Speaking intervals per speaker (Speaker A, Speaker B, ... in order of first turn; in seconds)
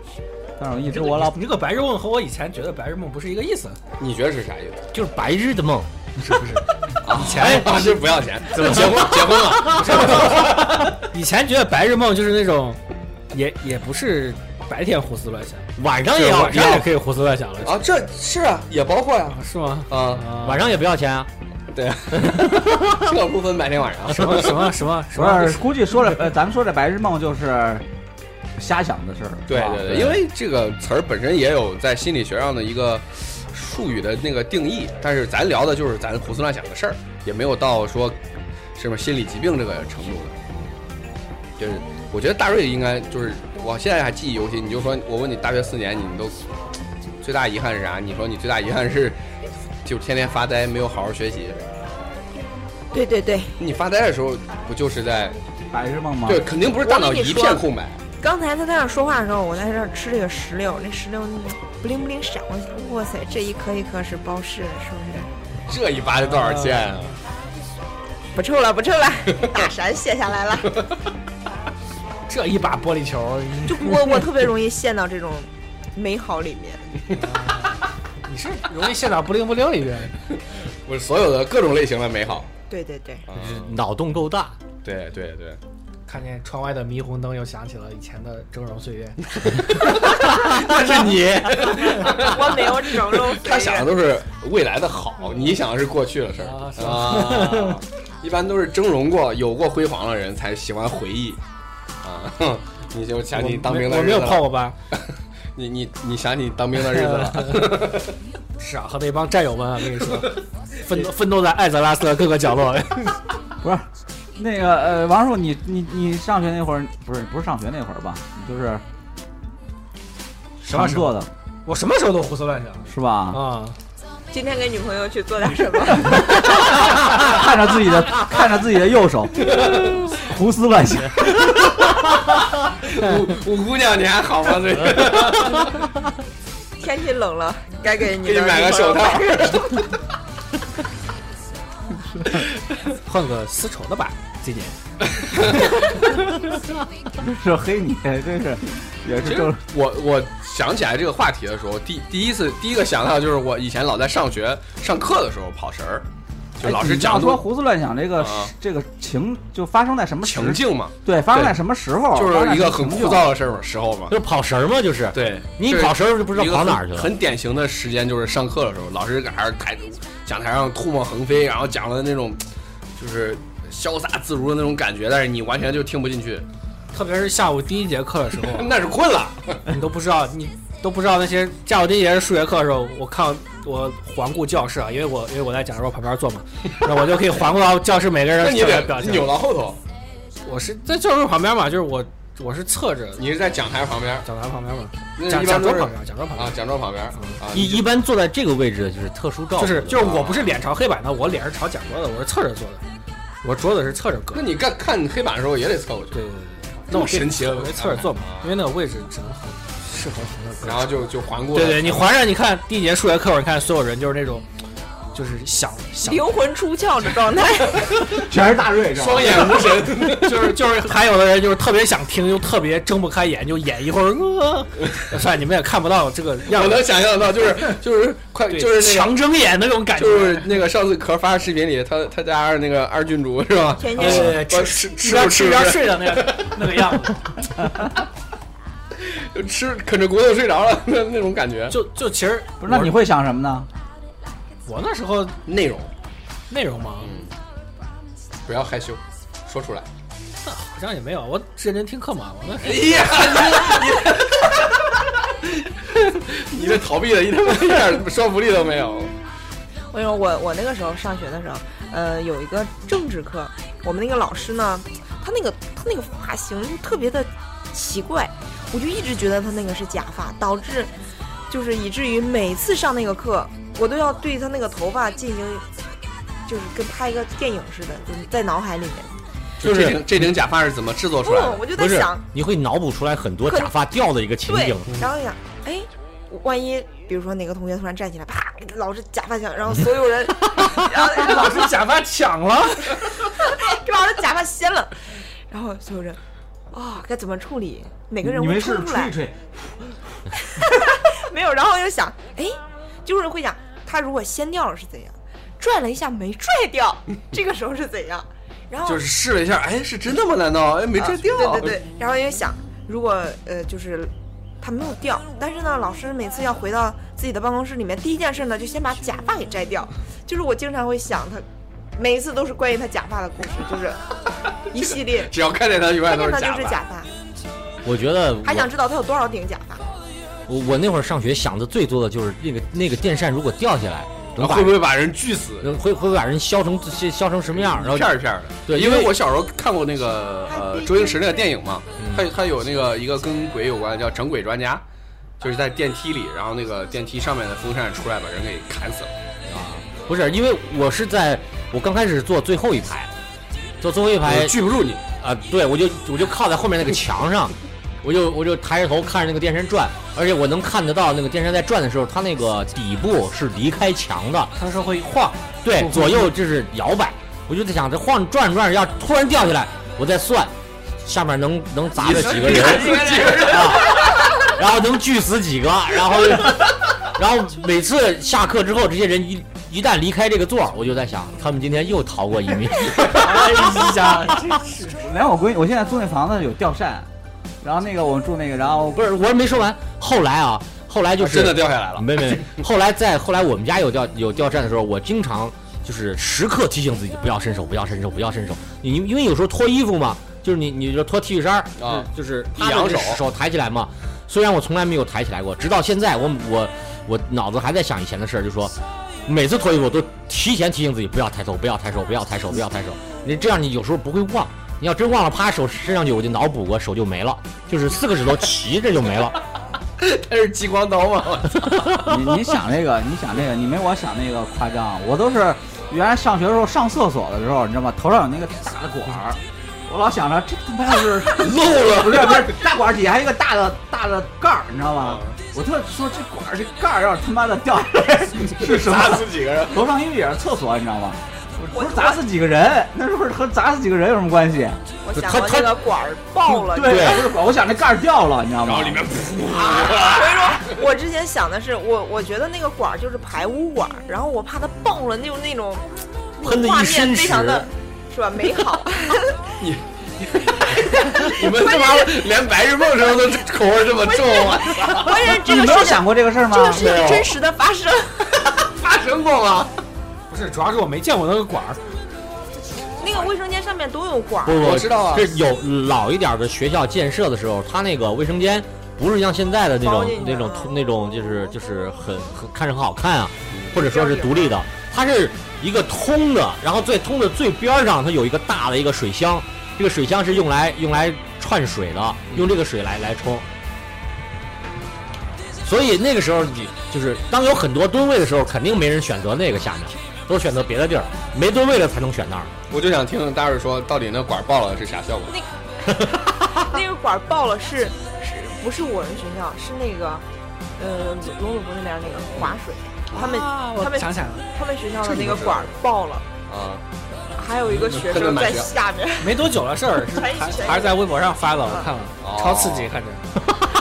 Speaker A: 0.6-1.4, 25.1-27.9, 28.6-30.2, 55.7-56.5, 113.6-118.8, 120.7-121.3, 122.9-123.4, 126.2-129.5, 130.2-131.7, 147.2-149.6, 156.6-163.3, 218.1-219.5, 242.6-243.7, 298.2-300.0, 384.9-387.1, 387.6-389.0, 422.0-444.8, 446.5-449.1, 465.3-466.9
Speaker B: 0.8-3.8, 6.2-8.0, 9.5-12.8, 13.3-15.7, 16.3-17.8, 19.4-20.7, 24.1-25.8, 66.2-67.0, 72.3-74.2, 77.2-80.1, 86.1-90.0, 96.4-97.8, 103.3-104.7, 106.9-107.8, 108.6-113.2, 120.6-123.8, 142.9-144.8, 176.9-178.8, 179.7-189.3, 190.4-193.2, 194.2-196.6, 199.6-202.8, 203.4-204.5, 206.1-214.4, 215.1-216.3, 219.3-226.9, 228.5-230.6, 233.9-237.5, 241.7-242.9, 244.7-245.4, 246.5-247.1, 250.4-253.6, 290.8-293.0, 364.6-366.3, 372.4-373.6, 382.9-385.0, 470.3-471.8, 513.1-514.5, 519.2-523.3
Speaker C: 4.0-4.8, 7.0-11.0, 16.2-16.7, 17.6-20.3, 21.7-24.7, 29.5-38.2, 38.7-40.4, 41.6-46.4, 47.2-49.2, 49.8-51.6, 53.6-55.4, 56.2-58.0, 65.7-67.2, 80.8-82.5, 83.3-83.8, 84.8-85.6, 89.5-101.4, 102.0-105.0, 105.5-108.1, 129.4-130.2, 131.3-135.8, 138.2-139.8, 145.2-145.9, 149.2-156.1, 156.6-157.4, 158.2-158.5, 160.2-161.6, 162.1-164.2, 165.1-172.4, 173.0-176.4, 178.5-179.6, 188.4-189.8, 193.2-194.3, 195.2-197.9, 200.0-200.6, 204.3-206.2, 206.9-208.5, 210.6-212.1, 218.9-220.5, 226.5-229.1, 229.9-236.9, 239.0-241.8, 245.4-245.9, 247.0-247.3, 248.4-249.9, 252.6-259.1, 279.6-281.7, 308.9-311.8, 325.0-326.8, 334.4-335.7, 337.6-344.8, 345.4-349.1, 354.2-355.0, 372.0-374.2, 391.2-392.6, 401.8-403.2, 420.0-422.0, 431.5-431.9, 435.0-435.3, 438.6-439.8, 448.6-450.7, 459.6-465.2, 466.8-467.3, 468.6-469.7, 474.5-475.3, 483.5-483.8, 502.7-505.3, 515.0-515.7, 516.5-516.8, 517.7-518.7, 522.2-522.9
Speaker D: 4.9-5.9, 7.4-7.8, 15.8-16.9, 20.3-21.3, 22.2-23.1, 83.3-84.5, 164.1-167.1, 197.5-200.0, 279.6-280.1, 281.7-284.9, 327.8-328.7, 330.5-334.8, 335.6-339.2, 342.0-342.3, 349.5-353.1, 353.8-364.5, 365.6-370.5, 371.0-383.9, 388.9-408.7, 409.2-419.4, 445.1-445.8, 446.8-447.2, 456.4-457.7, 474.4-493.4, 495.6-502.5, 505.9-506.7
Speaker E: 52.9-53.6, 56.8-57.6, 58.2-65.3, 68.3-70.7, 73.6-76.8, 82.7-83.2, 92.0-94.0, 124.3-126.6, 136.8-139.8, 216.0-217.9, 233.8-234.4, 259.9-270.9, 271.5-275.6, 276.4-279.2, 281.2-282.2, 283.4-283.7, 284.5-291.7, 293.4-294.9, 295.5-296.2, 296.7-299.1, 300.4-309.0, 311.0-324.1, 324.7-325.3, 326.0-327.1, 328.4-329.9, 340.5-341.4, 441.7-442.2, 445.0-447.3, 449.5-459.4, 464.8-468.4, 473.0-474.7, 479.8-480.7, 483.7-484.6, 506.5-510.2, 510.8-516.2, 517.4-519.5, 520.1-521.9